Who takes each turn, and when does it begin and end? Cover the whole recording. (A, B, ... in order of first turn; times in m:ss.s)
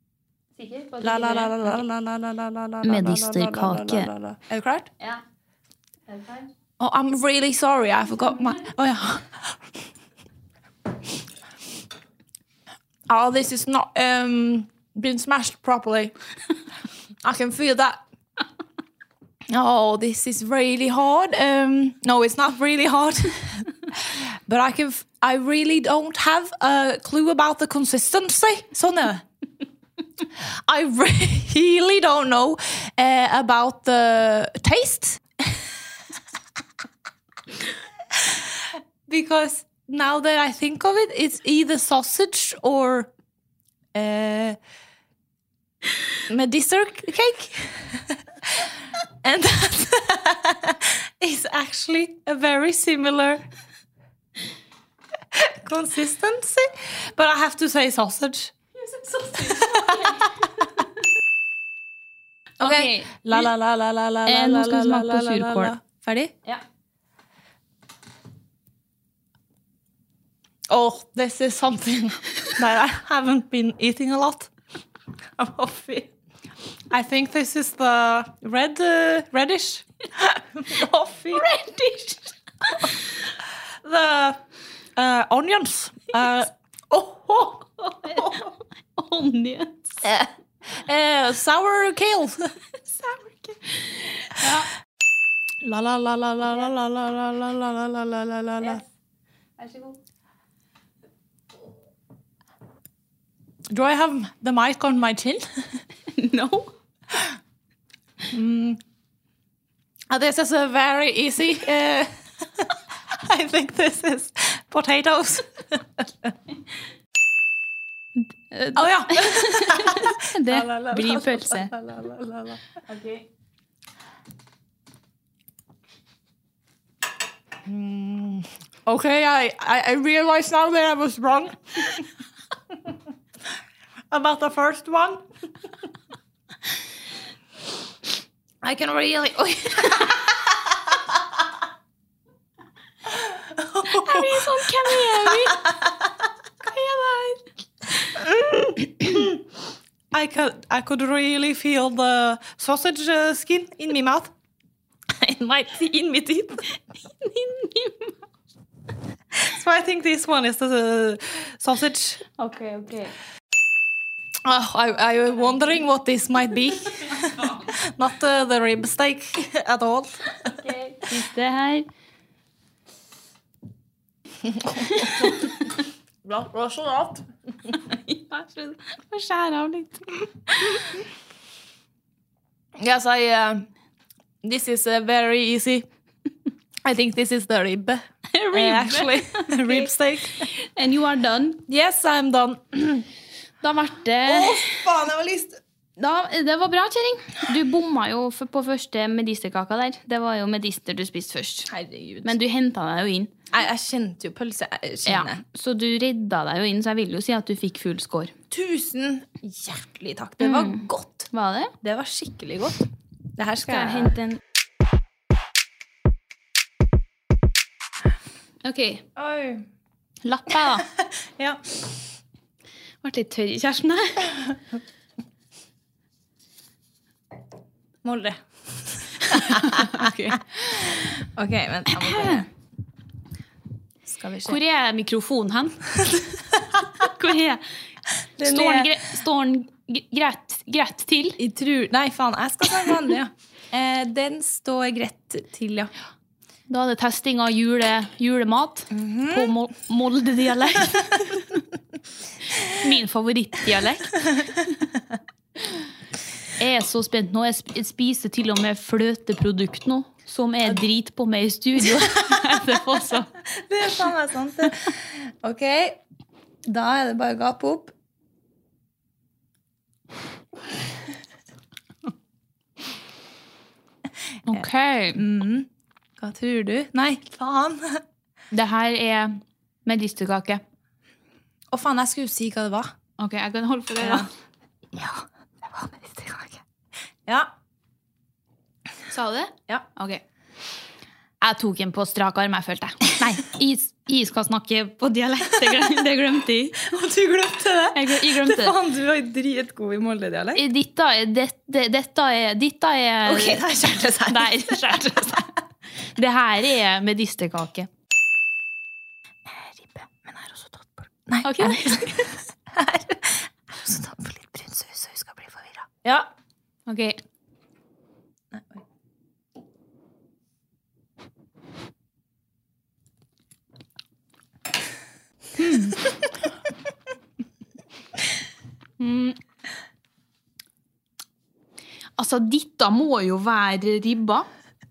0:00.6-0:01.8 A
0:01.0-0:04.9 B
0:02.8-0:04.1 A
0:06.1-0:06.5 A
0:06.8-0:09.6 B
0:13.1-0:16.1 B
0:17.2-0:18.0 B
0:19.5-0:29.2 B
0:30.7-0:35.6 B
0:38.2-0:43.1 B
0:43.9-0:44.6 B
0:46.3-0:53.5 B
0:55.3-0:58.5 B
0:58.8-1:00.9 A
0:59.5-1:00.1 B
1:02.6-1:06.3 B
1:02.6-1:03.5 A
1:04.3-1:05.7 A
1:10.7-1:14.5 B
1:15.4-1:16.1 B
1:16.9-1:21.5 B
1:21.3-1:22.9 A
1:23.8-1:24.4 B
1:25.0-1:28.4 B
1:28.0-1:30.0 A
1:30.0-1:32.5 B
1:32.9-1:34.7 A
1:35.6-1:38.8 B
1:39.6-1:40.0 A
1:43.7-1:45.5 B
1:46.1-1:46.7 A
1:48.3-1:48.8 B
1:50.1-1:56.3 B
1:58.2-2:01.7 A
1:58.8-2:02.6 B
2:02.9-2:03.3 A
2:07.6-2:12.1 B
2:14.1-2:15.2 B
2:18.6-2:20.6 B
2:23.1-2:25.5 B
2:23.9-2:25.7 A
2:26.6-2:27.5 A
2:28.1-2:29.4 B
2:30.1-2:34.3 B
2:35.1-2:36.7 B
2:37.1-2:38.2 A
2:39.3-2:42.2 B
2:42.4-2:43.1 A
2:44.4-2:50.6 B
2:50.4-2:51.9 A
2:54.4-2:55.5 B
2:54.9-2:55.6 A
2:56.2-2:57.3 B
2:57.7-3:01.0 A
3:02.8-3:03.7 B
3:04.4-3:05.9 B
3:06.8-3:10.5 B
3:08.3-3:11.6 A
3:11.7-3:13.1 B
3:13.6-3:14.8 A
3:14.2-3:15.6 B
3:16.0-3:21.7 A
3:21.7-3:22.3 B
3:22.2-3:23.3 A
3:23.5-3:25.4 B
3:25.1-3:28.3 A
3:28.5-3:31.3 B
3:30.4-3:31.7 A
3:31.8-3:34.2 B
3:33.7-3:34.4 A
3:38.6-3:39.0 A
3:39.2-3:39.7 B
3:40.2-3:40.9 A
3:40.9-3:41.8 B
3:43.0-3:44.4 A
3:48.0-3:52.5 B
3:49.3-3:51.0 A
3:51.9-3:52.4 A
3:54.1-3:54.6 B
3:54.4-3:55.8 A
3:57.0-3:57.6 A
3:58.4-3:59.0 B
3:58.4-4:01.4 A
4:01.4-4:05.9 B
4:06.7-4:11.6 A
4:08.9-4:09.5 B
4:12.7-4:14.5 A
4:16.6-4:23.3 A
4:23.5-4:26.0 B
4:26.6-4:27.9 B
4:34.5-4:35.2 A
4:34.5-4:38.0 B
4:38.5-4:40.6 A
4:41.7-4:42.9 B
4:43.2-4:44.3 A
4:44.0-4:44.3 B
4:44.9-4:46.6 B
4:49.1-4:50.2 A
4:51.4-4:56.9 A
4:56.8-5:00.6 B
4:57.9-4:58.8 A
5:00.6-5:05.5 A
5:03.2-5:05.5 B
5:06.2-5:07.9 A
5:09.5-5:16.2 B
5:11.4-5:12.3 A
5:16.9-5:17.2 A
5:18.5-5:18.8 B
5:25.6-5:26.0 A
5:29.0-5:29.4 A
5:32.2-5:34.5 A